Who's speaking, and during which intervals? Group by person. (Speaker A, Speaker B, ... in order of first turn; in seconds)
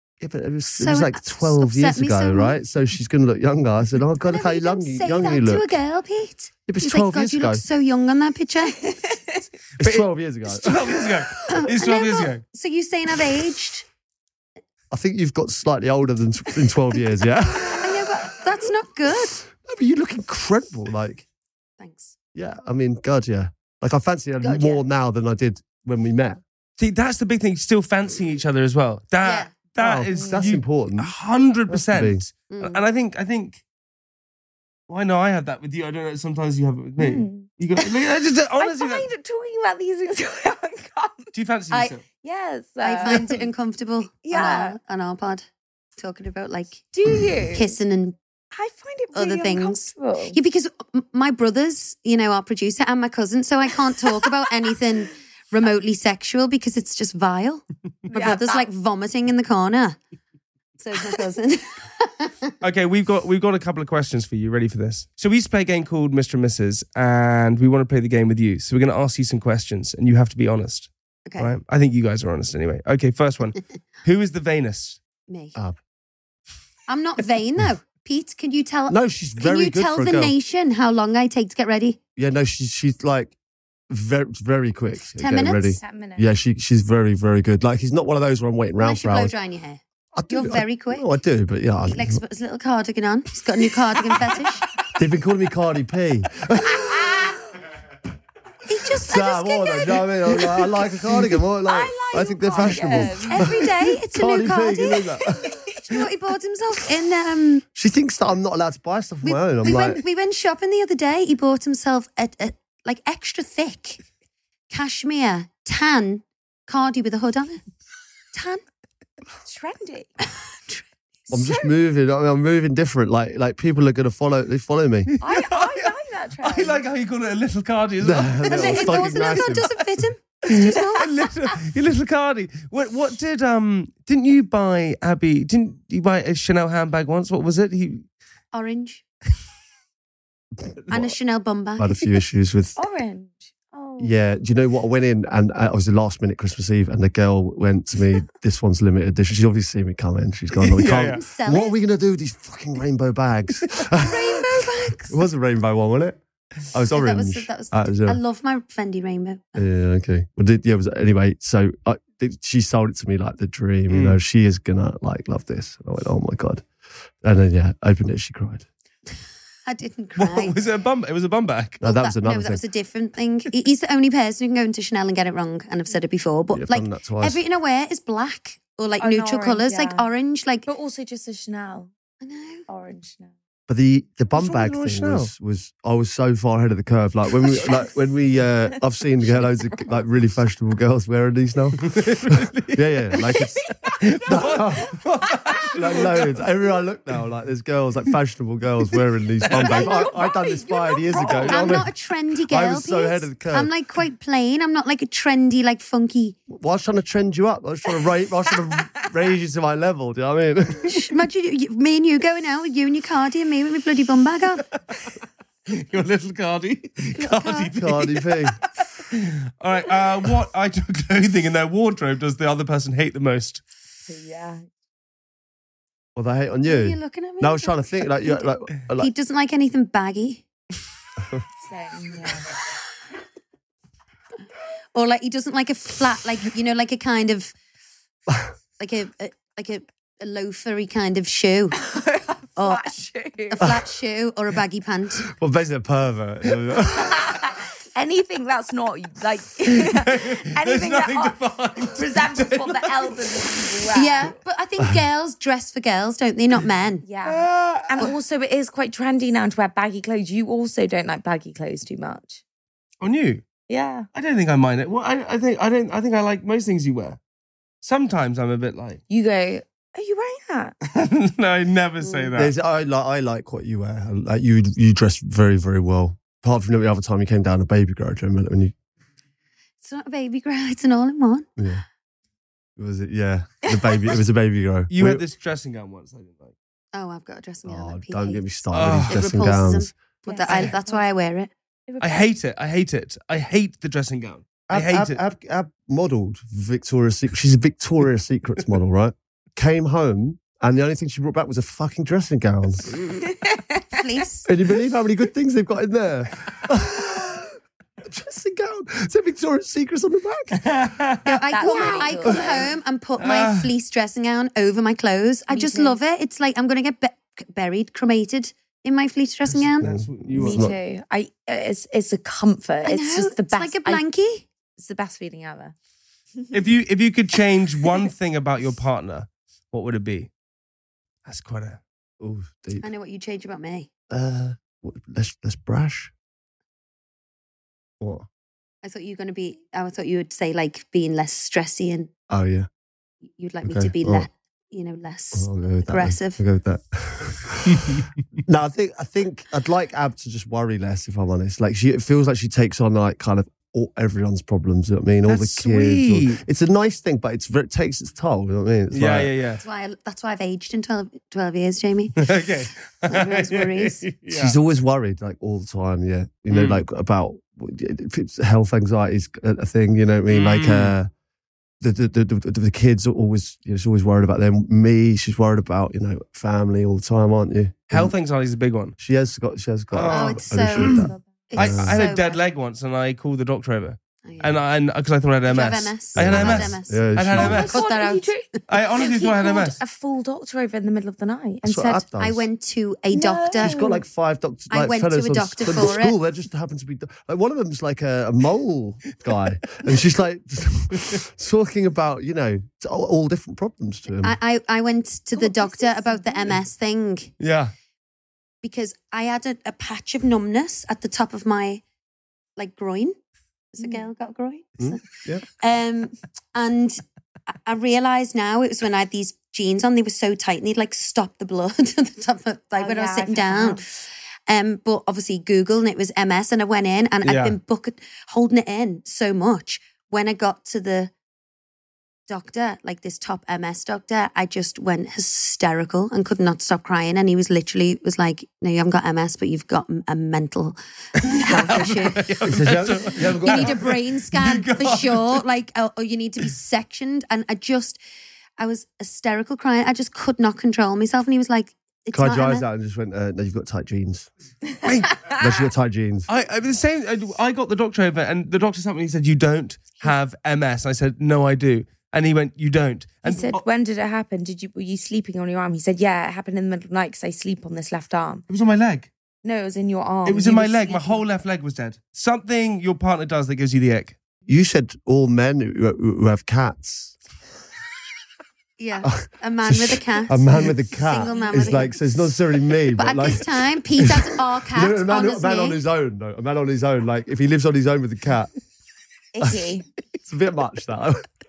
Speaker A: 0.2-5.7, 6.7-7.6, 9.8-11.5, 14.9-17.9, 19.5-21.2, 22.3-26.4, 29.8-31.1, 31.7-32.2, 78.9-80.3, 82.2-83.3, 83.9-89.3, 90.1-92.2, 95.0-97.3, 99.0-105.6, 107.7-110.0, 121.3-125.1, 128.0-129.7, 140.6-141.1, 141.8-142.8, 144.0-154.4, 155.1-158.2, 159.6-166.6, 167.2-168.7, 171.8-172.6, 176.5-177.4, 183.7-193.6, 194.2-194.9, 195.7-201.9, 202.5-203.7, 206.5-211.0, 217.8-218.6, 226.2-229.1, 245.2-247.3, 272.4-278.7, 281.6-281.8, 282.8-285.2, 287.6-289.9, 294.7-302.9, 304.4-310.6, 319.8-320.7, 332.2-332.9, 334.1-336.1, 338.0-338.3, 342.3-342.7, 343.6-344.3, 345.3-359.3, 364.3-371.1, 371.8-378.1, 379.0-382.0, 386.1-387.7, 391.6-392.4, 393.6-404.4, 414.8-415.4, 442.4-443.8, 452.1-454.3, 455.4-456.3, 474.5-477.2, 479.0-488.5, 490.2-491.2
Speaker B: 0.8-2.6, 4.2-8.8, 11.4-13.8, 17.6-19.4, 21.8-22.1, 24.4-24.8, 29.2-29.6, 32.5-32.8, 42.8-45.5, 46.0-46.9, 47.5-48.2, 49.1-60.0, 60.8-62.5, 71.3-71.5, 75.3-75.5, 76.9-82.0, 85.1-85.8, 88.8-91.1, 91.8-94.7, 98.7-100.5, 103.3-105.2, 105.8-107.6, 109.2-114.0, 114.7-117.6, 118.3-118.6, 120.6-120.9, 128.4-131.1, 138.5-139.0, 140.9-142.1, 151.1-151.8, 154.0-155.2, 156.9-159.6, 169.7-170.6, 171.8-180.7, 182.2-182.7, 201.5-206.4, 210.9-214.7, 217.2-217.7, 226.6-230.4, 234.9-237.5, 238.8-241.8, 242.6-242.9, 243.5-245.3, 253.9-257.1, 279.8-281.5, 286.9-288.5, 289.1-291.5, 303.9-304.5, 311.2-319.9, 322.8-324.5, 332.8-333.9, 338.8-342.1, 343.4-346.4, 359.6-362.3, 363.1-364.0, 380.1-382.4, 384.2-384.6, 385.4-388.6, 392.2-393.8, 394.7-396.1, 404.2-407.3, 408.6-411.8, 412.6-413.2, 413.7-431.1, 432.3-442.3, 443.2-448.0, 448.6-452.6, 478.8-482.2, 482.9-485.8
Speaker C: 8.8-9.4, 30.1-30.4, 37.0-38.0, 38.6-43.3, 44.2-44.8, 46.9-47.8, 48.5-50.4, 58.1-58.7, 85.8-86.3, 101.6-103.7, 119.4-120.1, 125.2-126.8, 142.8-144.1, 179.0-180.1, 180.7-181.9, 182.7-183.3, 189.4-189.9, 193.3-193.9, 195.3-195.6, 199.6-201.6, 224.1-224.7, 231.6-232.5, 241.8-243.7, 247.0-254.3, 257.0-262.4, 263.7-264.1, 269.1-270.7, 290.2-291.1, 291.9-292.3, 303.3-304.0, 311.5-312.7, 315.5-316.0, 320.4-324.0, 324.8-325.7, 387.4-392.0, 393.1-394.0, 405.4-406.5, 413.8-414.0, 422.8-423.8, 463.2-468.4, 469.4-471.2, 481.3-481.9, 489.3-489.8
Speaker D: 9.8-12.4, 26.8-33.6, 34.9-39.0, 41.3-42.0, 43.1-43.4, 62.6-75.0, 125.1-129.6, 130.5-138.1, 150.6-151.2, 163.9-164.2, 170.2-171.8, 184.3-185.3, 191.8-192.8, 193.8-196.4, 199.4-200.1, 201.1-201.8, 215.7-218.3, 219.0-223.6, 249.8-253.5, 257.2-258.1, 263.0-263.4, 264.1-267.2, 267.8-269.0, 270.8-272.5, 284.9-286.5, 288.7-289.4, 290.5-290.7, 292.0-295.2, 310.6-311.4, 313.2-313.7, 319.5-320.7, 326.5-330.3, 331.2-331.8, 347.7-348.1, 355.2-356.4, 358.9-359.6, 362.1-364.6, 366.5-366.8, 370.3-370.9, 377.9-378.9, 379.9-387.8, 388.7-389.8, 407.4-407.7, 427.2-427.6, 441.2-445.4, 454.8-455.4, 456.3-463.6, 468.5-469.1, 470.2-474.2